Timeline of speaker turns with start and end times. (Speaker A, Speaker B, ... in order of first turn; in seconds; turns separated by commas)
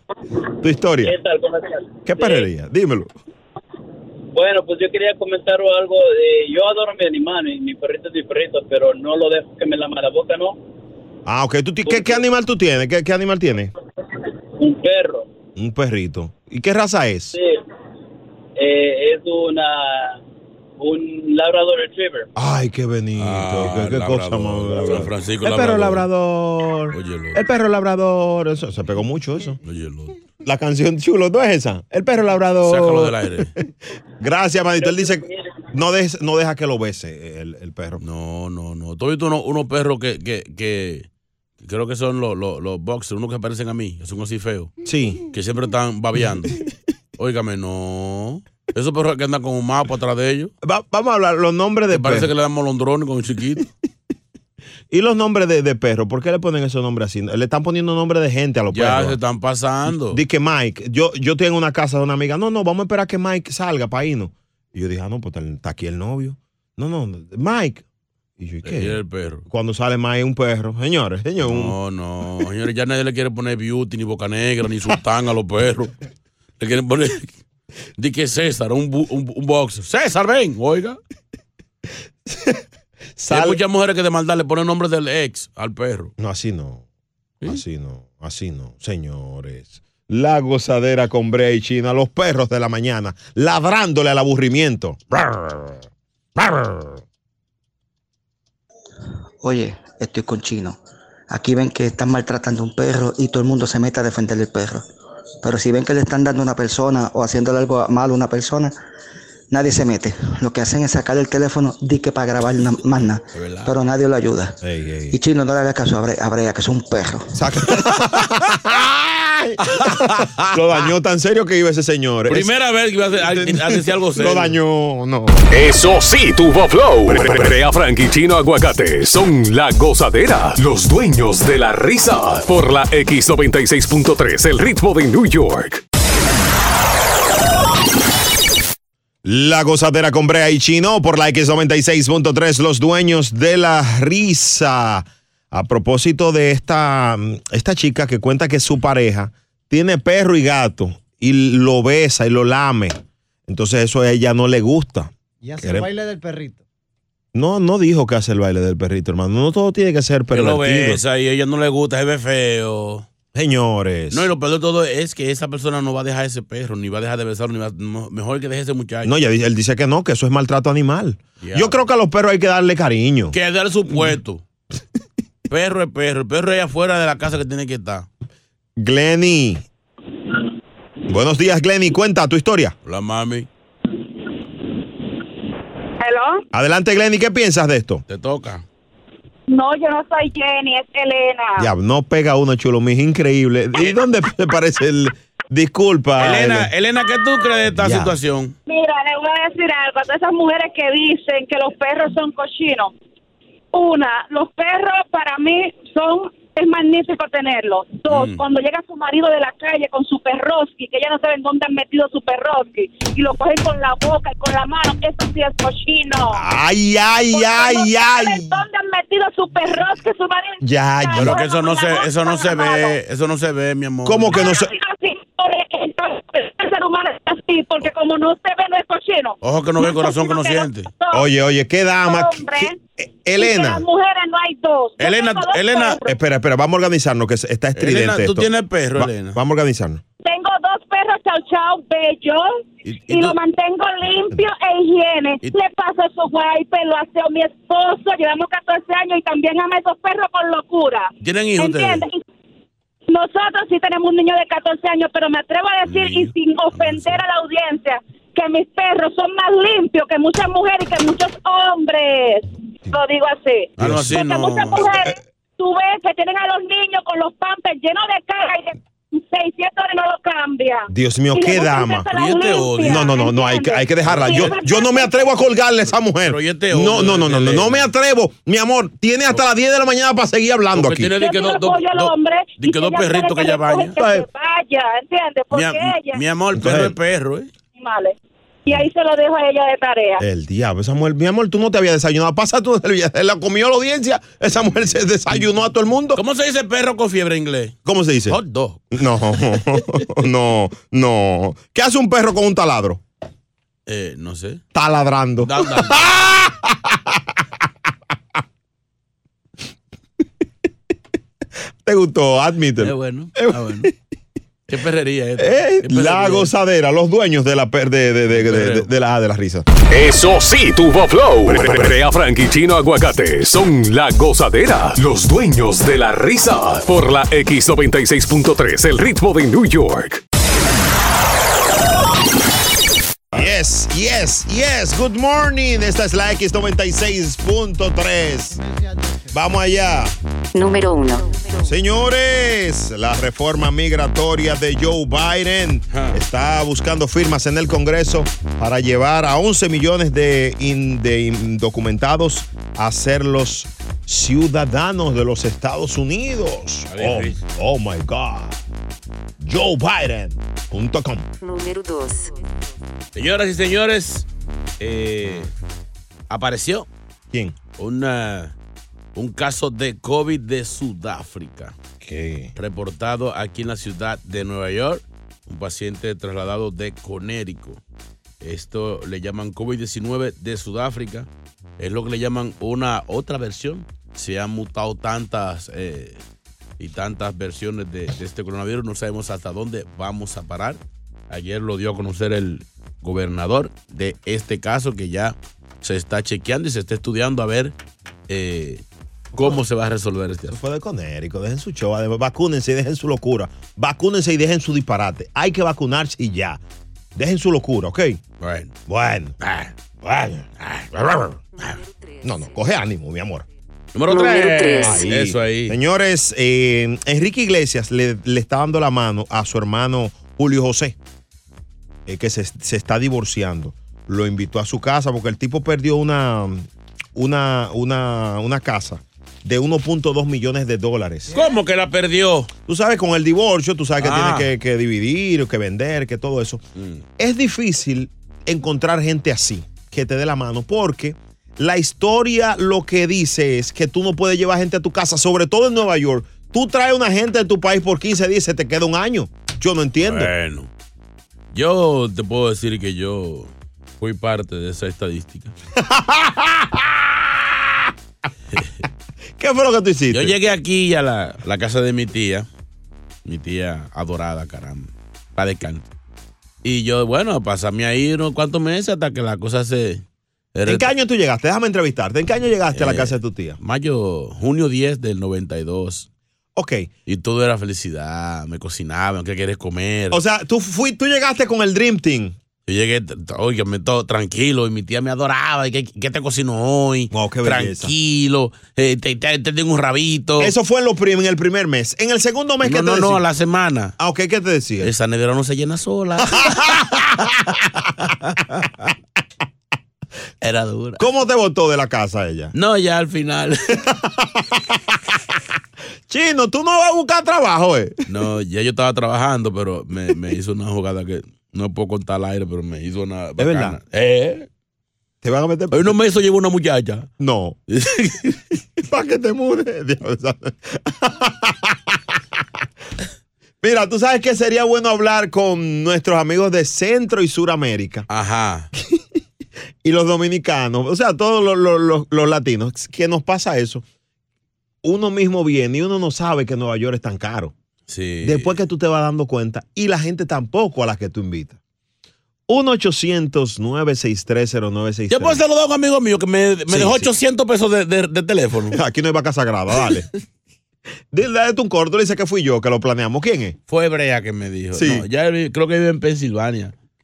Speaker A: 0.6-1.2, Speaker B: 1.0-2.5, Speaker A: 2.1-3.1, Speaker B: 4.3-10.6, Speaker A: 11.3-13.7, Speaker B: 11.8-12.2, Speaker B: 14.6-15.3, Speaker A: 15.6-17.4, Speaker B: 18.6-20.2, Speaker B: 20.8-22.3, Speaker A: 22.4-29.6, Speaker C: 23.2-26.1, Speaker C: 26.9-27.4, Speaker C: 29.6-30.1, Speaker A: 30.4-33.2, Speaker C: 32.6-33.5, Speaker A: 34.2-38.0, Speaker C: 38.0-41.1, Speaker C: 41.6-44.7, Speaker A: 44.9-45.2, Speaker C: 45.3-46.6, Speaker C: 47.2-50.5, Speaker A: 50.6-52.3, Speaker C: 51.9-53.7, Speaker A: 54.9-59.2, Speaker C: 58.7-60.2, Speaker A: 59.9-67.8, Speaker A: 68.4-71.8, Speaker C: 68.6-69.4, Speaker C: 71.4-75.9, Speaker C: 76.6-77.4, Speaker C: 78.0-81.0, Speaker A: 82.3-82.6, Speaker A: 83.2-83.6, Speaker C: 83.3-86.1, Speaker A: 86.2-86.8, Speaker A: 87.4-95.8, Speaker A: 96.4-97.0, Speaker D: 99.4-100.8, Speaker D: 101.3-104.9, Speaker D: 105.4-108.8, Speaker D: 109.5-114.6, Speaker C: 113.3-113.7, Speaker A: 114.6-115.2, Speaker D: 115.1-117.3, Speaker A: 117.3-122.5, Speaker C: 119.7-120.5, Speaker C: 122.3-124.6, Speaker A: 123.2-125.5, Speaker E: 125.5-135.8, Speaker A: 139.2-155.9, Speaker F: 155.4-156.6, Speaker A: 157.3-161.0, Speaker C: 160.3-163.1, Speaker A: 163.3-164.3, Speaker C: 164.1-169.1, Speaker A: 169.0-173.4, Speaker C: 171.4-171.8, Speaker C: 173.3-174.4, Speaker A: 173.9-174.2, Speaker C: 175.5-178.1, Speaker A: 178.8-179.6, Speaker A: 181.1-182.7, Speaker C: 182.8-183.5, Speaker G: 186.0-186.4, Speaker A: 186.5-188.0, Speaker C: 188.1-188.6, Speaker G: 189.5-191.7, Speaker A: 191.6-196.7, Speaker C: 196.2-198.6, Speaker A: 197.7-198.2, Speaker G: 198.7-202.9, Speaker G: 203.7-216.4, Speaker C: 208.1-208.4, Speaker A: 216.3-218.6, Speaker G: 217.3-223.0, Speaker A: 220.6-221.4, Speaker C: 221.2-224.5, Speaker A: 224.1-224.7, Speaker G: 224.4-231.3, Speaker C: 229.4-230.9, Speaker A: 231.1-233.8, Speaker G: 232.0-232.8, Speaker G: 233.4-236.2, Speaker C: 235.0-236.0, Speaker A: 236.1-240.0, Speaker C: 237.8-239.4, Speaker G: 240.2-252.2, Speaker C: 242.8-243.4, Speaker C: 251.2-252.1, Speaker G: 253.1-275.3, Speaker C: 255.9-257.2, Speaker C: 263.8-264.9, Speaker A: 263.8-264.2, Speaker A: 270.9-272.1, Speaker C: 272.1-273.2, Speaker A: 272.8-281.1, Speaker C: 274.0-274.6, Speaker C: 276.2-277.9, Speaker C: 280.8-283.9, Speaker G: 281.2-286.2, Speaker A: 284.0-284.3, Speaker C: 285.5-287.5, Speaker A: 286.6-286.9, Speaker G: 287.8-288.1, Speaker G: 288.7-290.2, Speaker A: 290.2-296.2, Speaker C: 294.7-295.4, Speaker C: 296.1-297.8, Speaker A: 297.9-298.4, Speaker C: 298.3-299.0, Speaker A: 298.9-303.0, Speaker C: 303.9-304.6, Speaker A: 304.7-307.2, Speaker C: 305.4-306.3, Speaker A: 311.8-313.9, Speaker C: 312.8-313.9, Speaker C: 314.7-316.5, Speaker A: 315.4-319.7, Speaker C: 318.3-318.9, Speaker E: 319.9-330.2, Speaker A: 333.3-338.6, Speaker F: 338.5-339.4, Speaker A: 339.3-340.1, Speaker H: 340.5-341.7, Speaker A: 341.6-358.6, Speaker C: 345.9-346.2, Speaker C: 356.9-357.4, Speaker A: 359.4-361.3, Speaker H: 361.4-362.5, Speaker C: 363.1-364.3, Speaker C: 364.8-365.5, Speaker C: 366.3-366.9, Speaker A: 367.3-367.6, Speaker C: 367.8-368.5, Speaker C: 369.1-371.8, Speaker A: 372.0-372.5, Speaker C: 372.6-377.8, Speaker C: 378.4-381.3, Speaker C: 381.8-386.2, Speaker C: 386.8-397.8, Speaker C: 398.3-398.8, Speaker C: 399.3-400.6, Speaker A: 400.5-406.6, Speaker A: 407.1-408.2, Speaker C: 408.4-408.7, Speaker A: 408.9-409.4, Speaker C: 409.4-409.7, Speaker A: 410.0-410.5, Speaker C: 410.6-411.8, Speaker H: 411.6-412.7, Speaker A: 412.2-413.5, Speaker C: 413.9-415.8, Speaker H: 414.1-415.0, Speaker A: 414.8-421.0, Speaker A: 422.1-431.4, Speaker C: 431.3-432.5, Speaker A: 432.7-436.6, Speaker C: 434.0-434.5, Speaker C: 436.8-437.0, Speaker A: 437.2-450.3, Speaker C: 450.0-450.7, Speaker C: 451.5-455.5, Speaker A: 455.8-457.9, Speaker A: 459.4-460.4, Speaker C: 460.1-462.5, Speaker C: 463.2-465.8, Speaker C: 466.6-470.0, Speaker C: 470.6-470.9, Speaker A: 470.7-473.6, Speaker C: 472.7-476.1, Speaker A: 476.6-476.9, Speaker C: 477.1-480.2, Speaker A: 480.1-482.4, Speaker C: 482.7-490.5, Speaker A: 487.1-487.9, Speaker A: 490.4-493.2, Speaker C: 492.6-493.9, Speaker A: 494.0-494.9, Speaker C: 494.8-496.8, Speaker A: 496.2-497.9, Speaker C: 500.4-501.1, Speaker A: 501.0-502.5, Speaker C: 502.5-503.6, Speaker A: 503.9-505.0, Speaker A: 506.1-507.9, Speaker C: 508.1-514.5, Speaker A: 513.4-513.8, Speaker A: 515.2-515.9, Speaker C: 515.7-517.1, Speaker A: 517.2-517.6, Speaker C: 517.7-518.4, Speaker A: 518.8-522.2, Speaker A: 523.6-528.1, Speaker C: 528.1-528.7, Speaker A: 529.8-533.8, Speaker A: 534.8-537.5, Speaker C: 537.9-538.6, Speaker A: 538.2-541.6, Speaker A: 542.5-545.4, Speaker C: 545.1-548.8, Speaker A: 546.7-547.1, Speaker A: 548.7-550.1, Speaker A: 551.1-553.6, Speaker C: 553.7-556.7, Speaker A: 554.7-555.1